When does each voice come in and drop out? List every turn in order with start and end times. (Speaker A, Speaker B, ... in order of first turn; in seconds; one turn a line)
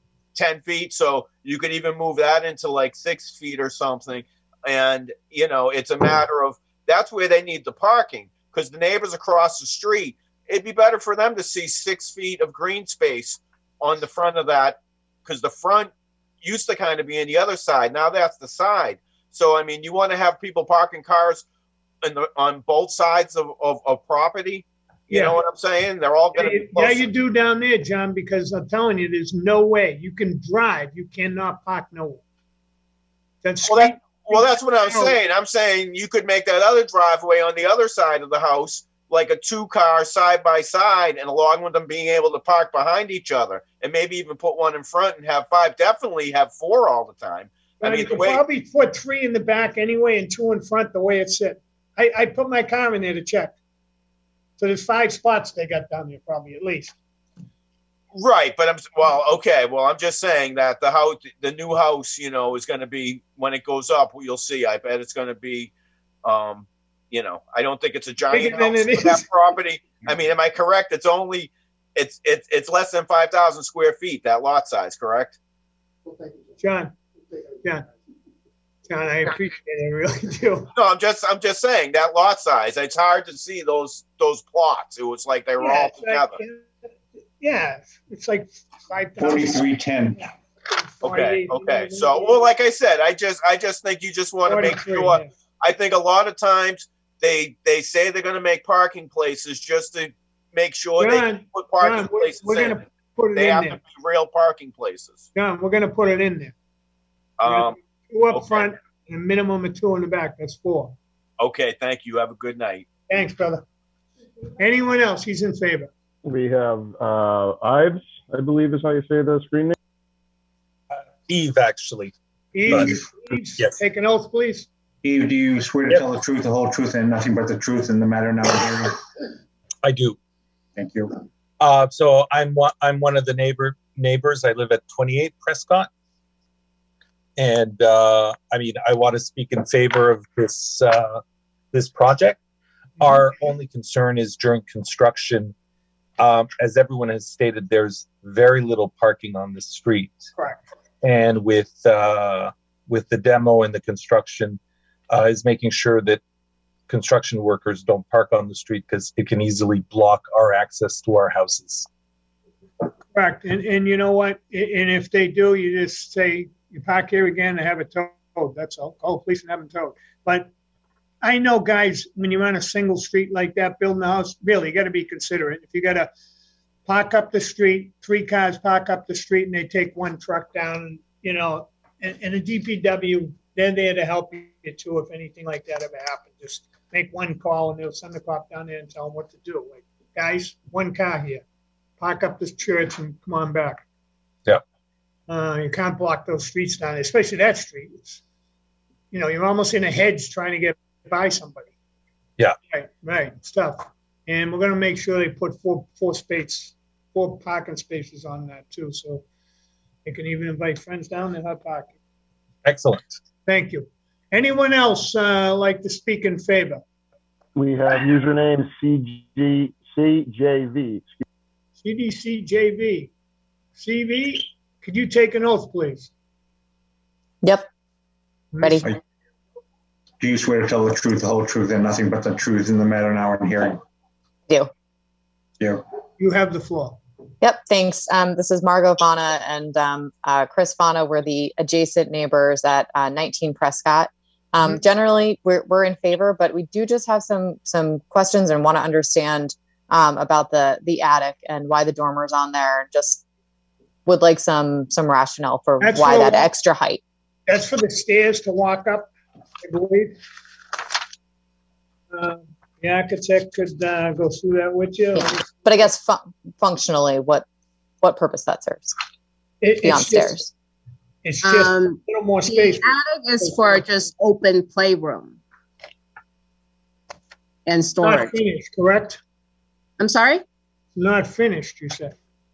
Speaker A: 0.3-15.9
Speaker A: 16.4-21.4
Speaker A: 22.0-27.1
Speaker B: 25.1-25.4
Speaker B: 26.3-32.2
Speaker B: 33.4-35.2
Speaker A: 33.6-48.4
Speaker B: 47.8-53.5
Speaker B: 54.6-56.9
Speaker A: 58.1-65.7
Speaker A: 66.2-75.4
Speaker B: 68.3-69.2
Speaker B: 76.6-76.9
Speaker B: 78.9-80.7
Speaker A: 80.7-86.4
Speaker B: 85.6-86.7
Speaker B: 87.4-89.7
Speaker C: 89.2-90.2
Speaker B: 90.7-92.4
Speaker A: 91.0-102.8
Speaker B: 94.5-95.3
Speaker B: 101.0-103.8
Speaker A: 103.3-105.2
Speaker B: 105.3-106.5
Speaker A: 107.4-107.7
Speaker B: 107.4-111.0
Speaker A: 108.3-108.6
Speaker A: 111.4-112.9
Speaker B: 113.1-113.6
Speaker B: 114.6-115.9
Speaker D: 116.2-119.8
Speaker E: 120.9-122.1
Speaker B: 122.5-124.7
Speaker E: 122.6-123.8
Speaker C: 125.0-129.0
Speaker E: 129.8-130.2
Speaker C: 130.8-131.1
Speaker E: 131.6-135.9
Speaker E: 137.4-141.2
Speaker E: 141.7-142.4
Speaker E: 143.0-145.5
Speaker E: 146.2-150.3
Speaker E: 151.0-156.2
Speaker E: 156.9-161.9
Speaker B: 163.1-170.5
Speaker B: 171.2-176.1
Speaker B: 176.8-191.4
Speaker B: 192.0-193.8
Speaker B: 195.3-198.2
Speaker B: 199.1-201.7
Speaker B: 202.7-209.2
Speaker B: 210.0-211.9
Speaker E: 212.6-213.1
Speaker B: 213.4-216.8
Speaker D: 217.5-221.2
Speaker B: 221.8-223.1
Speaker B: 223.8-226.1
Speaker F: 227.4-227.7
Speaker B: 228.5-228.9
Speaker C: 230.2-233.8
Speaker B: 236.2-237.0
Speaker F: 237.4-253.2
Speaker F: 254.1-257.0
Speaker B: 255.8-256.5
Speaker B: 257.5-259.1
Speaker B: 259.6-260.1
Speaker B: 262.1-265.6
Speaker F: 265.1-267.4
Speaker F: 268.0-268.9
Speaker B: 269.6-270.4
Speaker F: 269.8-270.5
Speaker B: 271.2-273.8
Speaker G: 271.6-272.0
Speaker G: 272.6-275.3
Speaker G: 277.7-278.2
Speaker B: 278.0-279.2
Speaker G: 280.0-280.4
Speaker B: 280.9-282.1